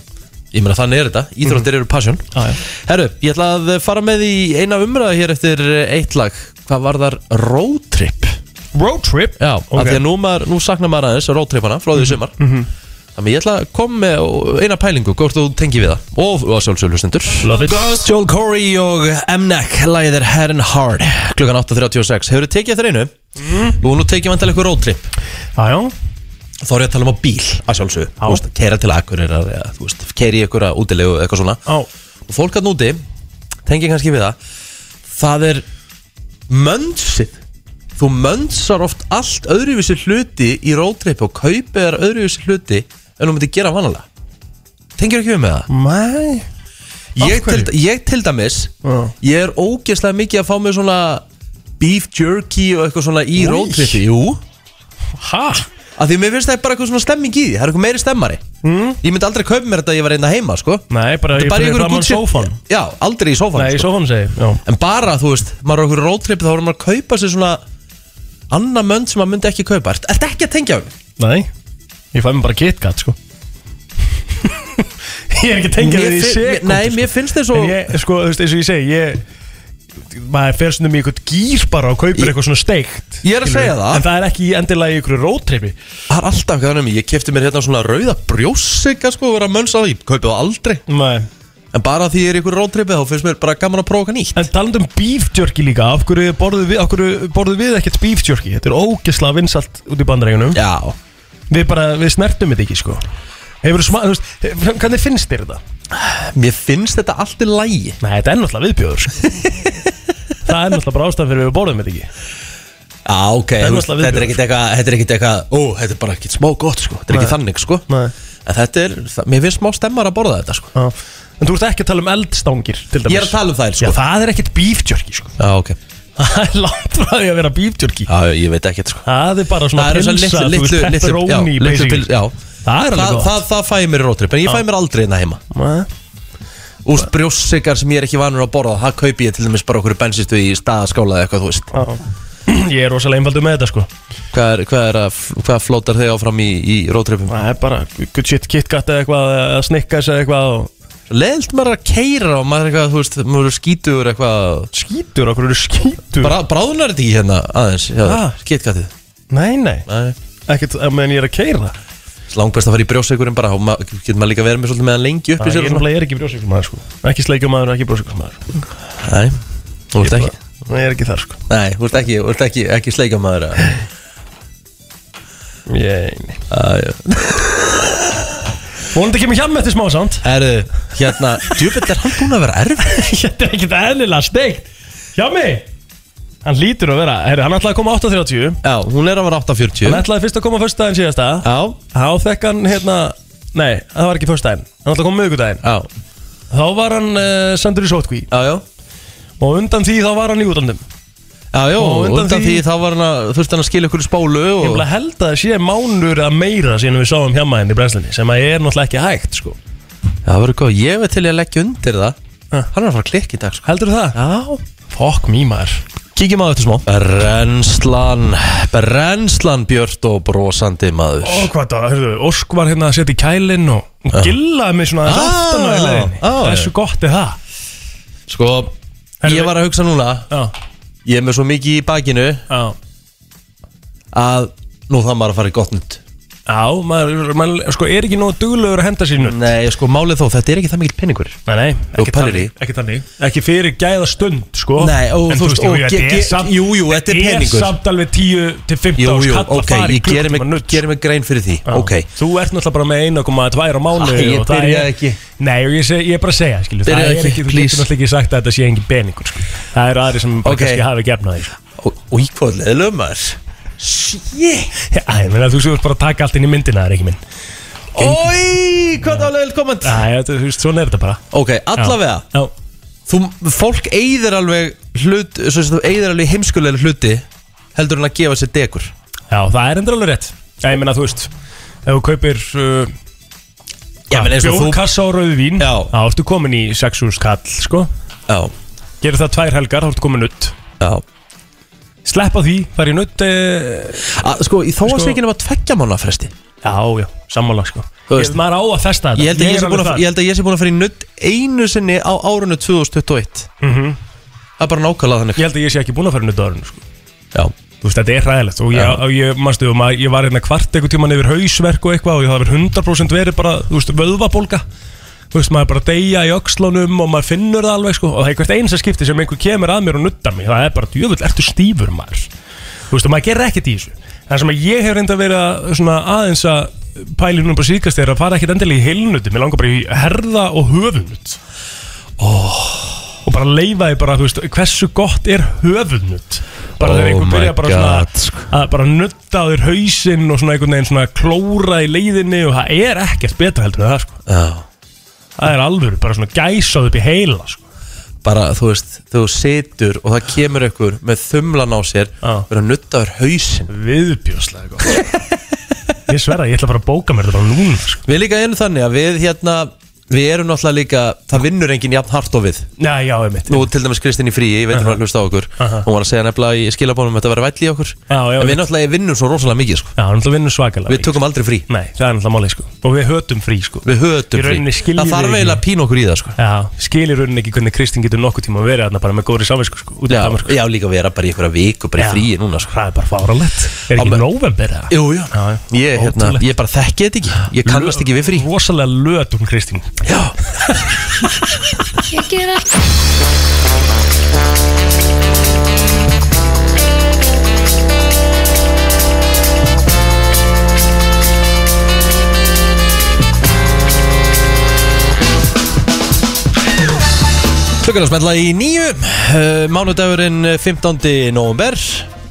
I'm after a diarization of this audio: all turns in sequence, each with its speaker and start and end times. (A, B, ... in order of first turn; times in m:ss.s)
0:00.5-0:08.4 A
0:02.3-0:02.6 B
0:08.7-0:10.0 B
0:09.4-0:12.3 A
0:12.0-0:12.7 B
0:13.1-0:23.1 A
0:17.4-0:17.9 B
0:23.4-0:23.8 B
0:23.7-0:25.1 A
0:25.6-0:25.9 B
0:26.6-0:31.6 A
0:32.3-0:33.0 A
0:33.6-0:34.4 A
0:35.1-0:35.6 A
0:36.5-0:37.4 A
0:38.0-0:44.0 A
0:45.0-0:45.7 A
0:45.7-0:46.4 B
0:47.2-0:51.2 A
0:47.2-0:47.7 B
0:48.8-0:49.1 B
0:51.8-0:54.4 A
0:53.4-0:54.0 B
0:55.2-0:55.6 B
0:56.0-0:58.4 A
0:58.6-0:59.0 B
0:59.0-1:03.9 A
1:00.9-1:02.6 B
1:03.6-1:04.6 B
1:04.6-1:07.6 A
1:08.5-1:10.9 A
1:11.2-1:11.5 B
1:12.1-1:13.2 B
1:14.4-1:19.2 B
1:15.8-1:17.9 A
1:20.1-1:25.7 B
1:23.2-1:24.0 A
1:26.1-1:30.8 A
1:30.9-1:31.3 B
1:31.7-1:34.5 A
1:34.4-1:40.6 B
1:40.5-1:41.0 A
1:41.5-1:43.0 B
1:43.6-1:45.6 B
1:45.9-1:48.0 A
1:48.0-1:49.3 B
1:50.4-1:52.1 B
1:53.0-1:57.8 A
1:53.6-1:54.4 B
1:57.1-1:57.4 B
1:57.9-1:58.1 B
1:58.4-2:00.7 A
2:00.7-2:05.3 B
2:03.1-2:04.0 A
2:05.4-2:05.8 A
2:06.2-2:08.1 B
2:08.1-2:09.1 A
2:09.0-2:12.1 B
2:09.7-2:12.3 A
2:12.6-2:13.4 B
2:12.9-2:15.4 A
2:15.5-2:15.9 B
2:16.8-2:21.7 A
2:21.7-2:23.9 B
2:24.3-2:27.4 A
2:27.3-2:30.7 B
2:31.1-2:34.7 A
2:34.7-2:36.4 B
2:36.2-2:38.9 A
2:38.0-2:38.3 B
2:39.3-2:39.8 B
2:39.9-2:40.2 A
2:40.5-2:41.7 B
2:42.3-2:45.8 A
2:45.4-2:48.4 B
2:49.0-2:49.4 A
2:49.9-2:50.3 A
2:50.0-2:51.4 B
2:51.5-2:53.7 A
2:55.7-2:56.4 B
2:56.5-2:57.9 A
2:58.9-3:00.2 B
3:00.2-3:03.0 A
3:02.8-3:05.6 B
3:06.4-3:08.6 B
3:08.6-3:10.0 A
3:09.8-3:15.6 B
3:11.4-3:11.8 A
3:15.6-3:15.9 A
3:16.5-3:18.3 B
3:18.3-3:18.6 A
3:19.4-3:20.8 B
3:21.5-3:24.8 A
3:21.8-3:22.6 B
3:24.6-3:29.6 B
3:30.2-3:32.2 A
3:32.7-3:34.6 A
3:33.6-3:34.2 B
3:34.9-3:35.8 B
3:36.1-3:41.5 A
3:41.2-3:47.4 B
3:45.0-3:46.7 A
3:48.3-3:50.3 A
3:49.2-3:49.6 B
3:51.0-3:52.4 A
3:52.5-3:52.7 B
3:54.1-3:56.0 A
3:56.5-3:59.4 B
3:59.2-4:01.4 A
4:01.5-4:10.8 B
4:01.9-4:02.5 A
4:04.8-4:07.8 A
4:09.0-4:12.1 A
4:11.7-4:21.5 B
4:13.9-4:15.2 A
4:16.8-4:17.9 A
4:20.4-4:20.8 A
4:21.8-4:24.7 A
4:24.9-4:27.2 B
4:27.9-4:28.3 B
4:27.9-4:30.0 A
4:29.0-4:29.3 B
4:29.8-4:31.2 B
4:31.3-4:32.2 A
4:31.8-4:32.5 B
4:33.1-4:38.9 A
4:39.3-4:41.3 B
4:41.8-4:42.9 B
4:44.1-4:44.9 A
4:44.1-4:47.9 B
4:45.6-4:45.9 A
4:48.3-4:48.5 A
4:49.0-4:50.5 B
4:52.0-4:54.1 B
4:54.0-4:56.3 A
4:54.8-4:55.2 B
4:56.6-5:00.0 B
4:58.1-4:58.4 A
4:59.1-5:03.5 A
5:03.6-5:04.0 B
5:04.6-5:05.4 A
5:05.4-5:06.8 B
5:07.8-5:14.6 B
5:08.7-5:09.0 A
5:15.3-5:22.3 B
5:22.9-5:31.4 B
5:32.2-5:33.1 A
5:33.2-5:44.2 B
5:36.8-5:38.5 A
5:44.2-5:44.6 A
5:45.4-5:47.6 B
5:48.2-5:53.7 A
5:53.7-5:55.0 B
5:56.1-5:58.0 B
5:58.0-6:02.7 A
6:02.8-6:03.7 B
6:03.5-6:09.9 A
6:04.7-6:05.0 B
6:05.6-6:05.9 B
6:08.1-6:08.6 B
6:10.0-6:15.6 B
6:10.8-6:11.6 A
6:13.8-6:16.4 A
6:16.4-6:20.6 B
6:20.1-6:22.7 A
6:22.0-6:26.5 B
6:23.9-6:24.2 A
6:24.9-6:28.5 A
6:27.6-6:29.9 B
6:30.0-6:30.9 A
6:47.8-6:52.1 A